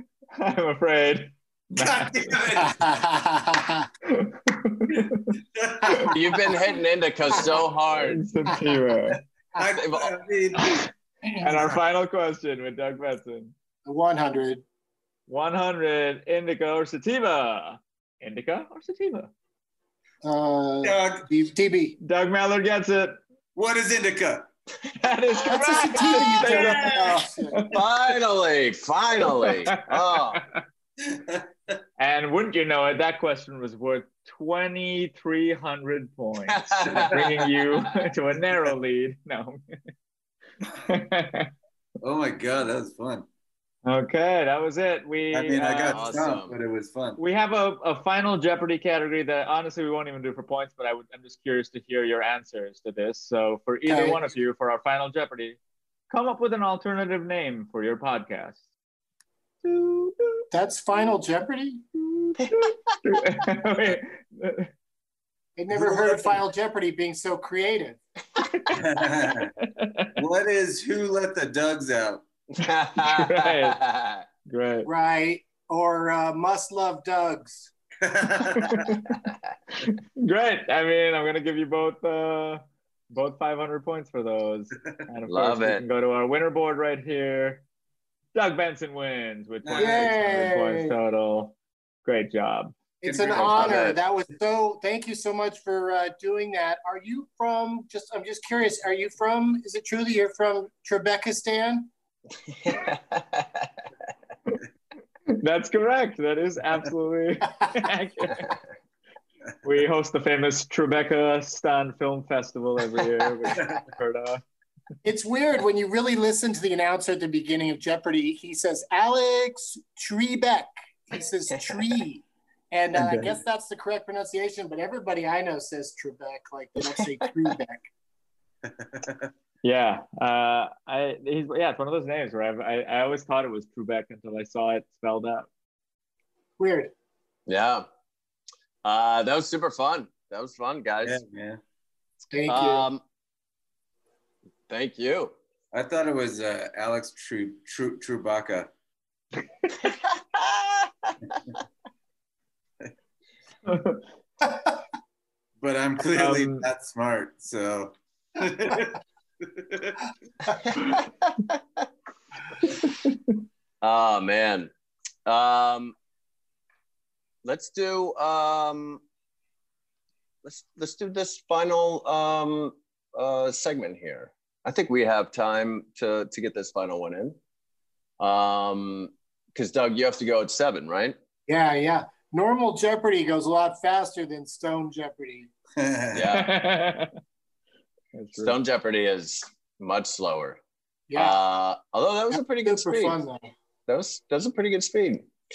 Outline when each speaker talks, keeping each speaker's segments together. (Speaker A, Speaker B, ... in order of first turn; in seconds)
Speaker A: 0.4-2.4, 4.1-5.3, 7.9-9.2, 10.6-10.9, 11.4-13.5, 15.3-19.3, 22.0-23.2, 24.9-27.8, 29.4-29.8, 32.0-39.6, 40.8-41.5, 43.8-46.1, 47.2-55.6, 56.1-58.6, 59.6-60.4, 62.2-64.7, 68.4-68.8, 69.6-70.1, 73.0-73.8, 74.5-74.9, 78.5-79.2, 79.8-87.6, 88.3-91.5, 92.0-92.7, 105.3-108.5, 109.6-114.4, 129.6-135.5, 153.7-154.0, 156.1-156.7, 186.3-187.1, 188.1-188.6
Speaker B: 1.8-2.8, 5.5-6.2, 9.6-11.8, 20.8-21.3, 23.6-24.5, 26.3-27.2, 31.0-31.8, 36.8-37.3, 42.0-43.2, 45.3-47.2, 65.7-66.3, 68.7-69.5, 70.2-72.2, 78.0-78.9, 89.6-90.2, 93.0-94.0, 113.6-113.8, 123.0-123.3, 128.7-129.3, 141.0-141.6, 145.7-148.7, 155.6-160.1, 185.8-186.2
Speaker C: 2.6-3.9, 13.8-14.6, 20.2-22.0, 25.4-27.6, 53.9-54.3, 60.5-61.8, 65.6-68.0, 74.8-77.7, 89.7-90.9, 93.0-101.9, 115.0-127.9, 136.6-136.9, 142.3-142.9, 154.4-154.8, 181.5-185.5, 191.1-191.4, 192.3-193.5
Speaker D: 6.1-8.3, 9.7-10.1, 27.7-30.4, 36.5-37.2, 45.9-46.6, 72.6-74.2, 85.3-85.8, 93.5-94.0, 102.6-103.5, 137.5-137.8, 138.8-141.2, 142.5-143.0, 144.7-145.3, 150.3-151.1, 163.8-164.7, 165.2-165.9, 167.4-169.0, 170.4-177.4, 178.2-181.2, 186.1-186.5, 188.4-190.6, 191.2-193.2, 193.9-195.3